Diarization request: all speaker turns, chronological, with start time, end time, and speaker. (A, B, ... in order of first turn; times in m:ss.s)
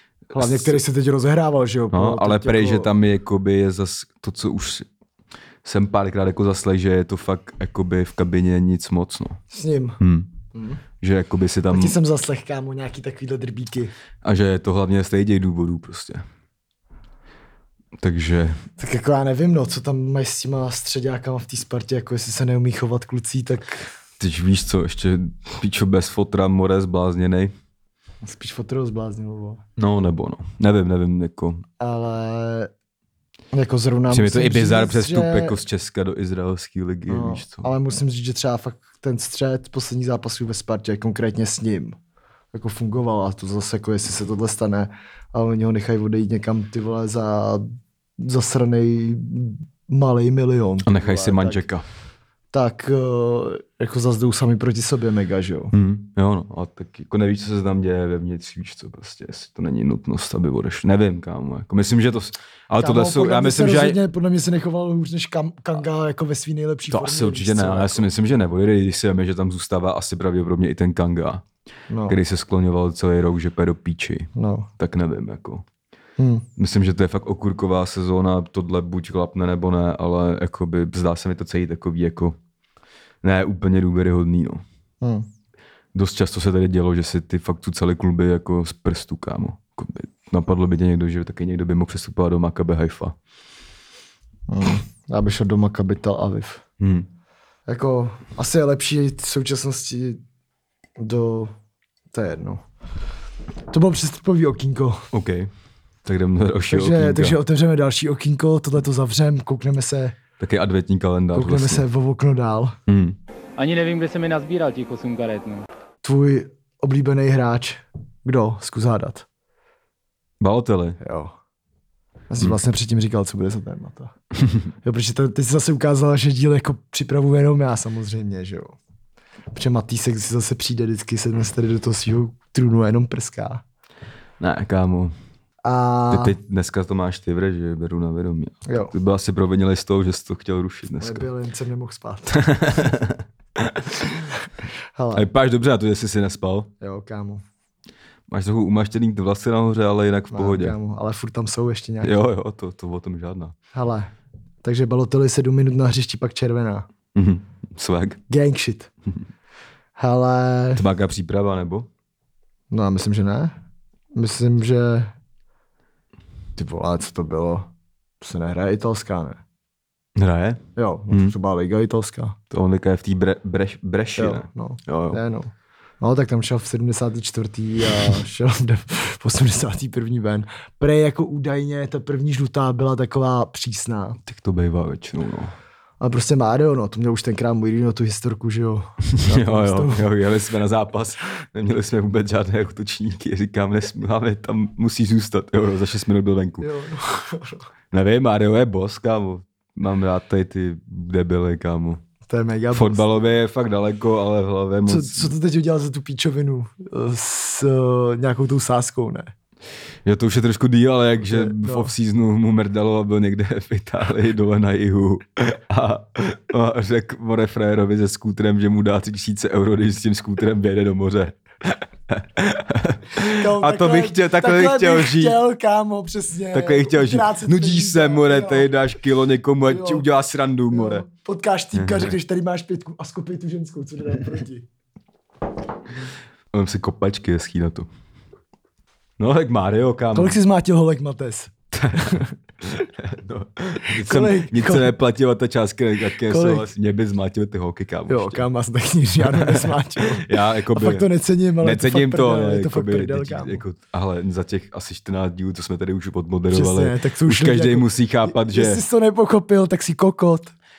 0:00.3-0:00.8 A
0:00.3-0:02.9 B
0:01.9-0:04.9 A
0:05.6-0:09.4 A
0:09.5-0:10.0 B
0:10.0-0:10.3 A
0:10.5-0:10.8 B
0:11.0-0:12.0 A
0:11.7-0:13.9 B
0:14.2-0:16.2 A
0:18.0-0:18.6 A
0:18.8-0:23.9 B
0:24.2-0:27.5 A
0:28.2-0:29.6 B
0:29.8-0:31.6 A
0:31.8-0:32.7 B
0:33.5-0:35.6 B
0:34.1-0:37.7 A
0:37.1-0:42.0 B
0:42.5-0:51.6 B
0:50.9-0:51.8 A
0:52.5-0:55.7 B
0:55.7-1:04.0 A
1:02.8-1:08.1 B
1:06.9-1:11.4 A
1:11.9-1:12.2 B
1:12.1-1:15.7 A
1:14.4-1:14.7 B
1:16.2-1:16.5 B
1:16.6-1:22.4 A
1:23.2-1:24.6 A
1:25.9-1:33.2 A
1:34.5-1:36.6 B
1:36.8-1:37.1 A
1:37.7-1:40.2 B
1:41.0-1:41.5 B
1:42.1-1:42.6 B
1:43.7-1:45.1 B
1:45.1-1:45.5 A
1:46.0-1:47.4 A
1:46.7-1:50.2 B
1:50.4-1:51.8 A
1:51.3-1:52.8 B
1:52.9-1:53.2 A
1:53.6-1:55.6 C
1:56.0-1:59.3 B
2:00.4-2:01.0 A
2:01.0-2:01.4 B
2:02.3-2:04.1 B
2:04.8-2:08.8 B
2:09.5-2:13.6 B
2:14.4-2:15.1 A
2:15.6-2:16.4 B
2:16.1-2:21.3 A
2:18.7-2:18.9 B
2:21.0-2:22.5 B
2:22.3-2:24.1 A
2:25.0-2:25.3 B
2:25.1-2:26.7 A
2:26.8-2:27.4 B
2:28.3-2:30.8 A
2:30.3-2:32.2 B
2:32.0-2:33.6 A
2:33.7-2:34.1 B
2:34.6-2:36.9 B
2:37.1-2:38.2 A
2:38.3-2:38.9 B
2:40.0-2:40.8 B
2:40.7-2:41.9 A
2:42.7-2:43.6 B
2:44.2-2:45.1 B
2:46.6-2:47.7 B
2:48.2-2:49.4 B
2:50.2-2:51.3 A
2:50.8-2:52.4 B
2:52.5-2:55.2 A
2:54.2-3:04.2 B
3:04.2-3:05.6 A
3:06.0-3:10.1 B
3:09.1-3:16.7 A
3:16.6-3:17.6 B
3:17.9-3:22.0 A
3:22.3-3:23.1 B
3:22.7-3:25.3 A
3:24.9-3:29.3 B
3:30.0-3:45.4 A
3:31.3-3:31.9 B
3:43.2-3:48.7 B
3:46.5-3:51.1 A
3:49.7-3:50.1 B
3:50.7-3:54.7 B
3:51.7-3:52.2 A
3:56.5-3:57.9 A
3:59.2-4:00.4 A
4:00.1-4:02.3 B
4:01.7-4:08.4 A
4:03.8-4:04.9 B
4:06.2-4:06.7 B
4:08.1-4:13.6 B
4:09.2-4:11.1 A
4:11.6-4:18.8 A
4:16.5-4:20.5 B